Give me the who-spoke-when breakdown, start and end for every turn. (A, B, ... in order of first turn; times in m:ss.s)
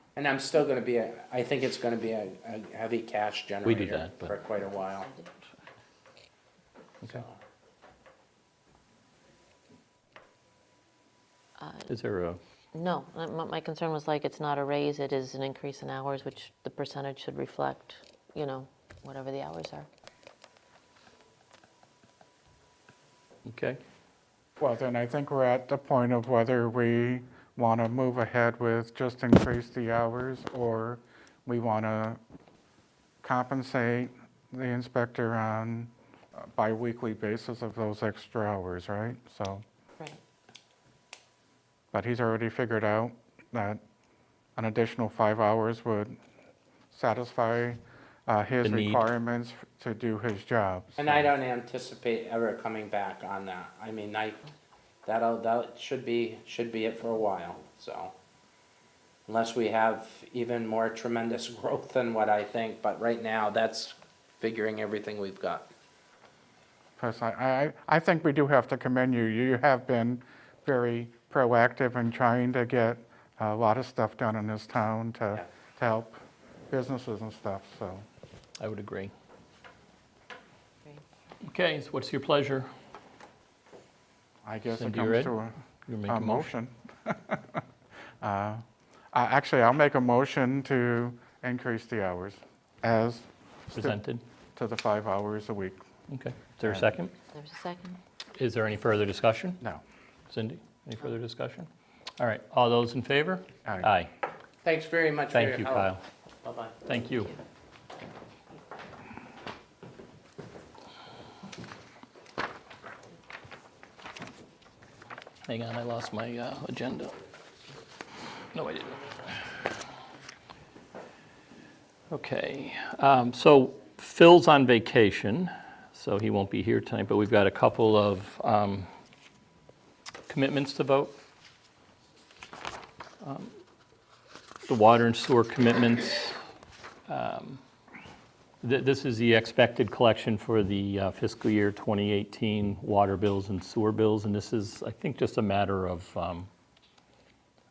0:00.2-0:05.1 A
0:03.6-0:04.3 B
0:07.0-0:07.3 A
0:11.6-0:11.9 C
0:11.9-0:12.4 B
0:12.7-0:19.9 C
0:23.5-0:23.8 B
0:24.6-0:32.2 D
0:33.2-0:39.6 D
0:41.9-0:43.8 D
0:44.6-0:46.2 D
0:46.9-0:51.2 D
0:48.6-0:49.0 B
0:51.0-0:54.4 A
0:55.0-0:58.1 A
0:59.3-1:05.7 A
1:07.0-1:18.0 D
1:18.6-1:19.1 B
1:21.4-1:22.7 B
1:24.4-1:25.6 D
1:24.7-1:26.5 B
1:26.1-1:27.6 D
1:28.2-1:34.0 D
1:33.7-1:34.2 B
1:34.6-1:35.8 D
1:36.1-1:37.1 B
1:37.3-1:38.0 C
1:38.4-1:39.6 B
1:40.3-1:44.1 B
1:43.7-1:43.9 D
1:44.6-1:45.9 A
1:45.3-1:46.0 B
1:46.4-1:46.8 A
1:46.8-1:47.3 B
1:55.5-1:57.1 B
1:58.5-1:59.4 B
2:02.1-2:08.9 B
2:10.3-2:11.2 B
2:13.2-2:13.5 B
2:14.7-2:16.4 B
2:17.1-2:17.6 B
2:18.6-2:26.5 B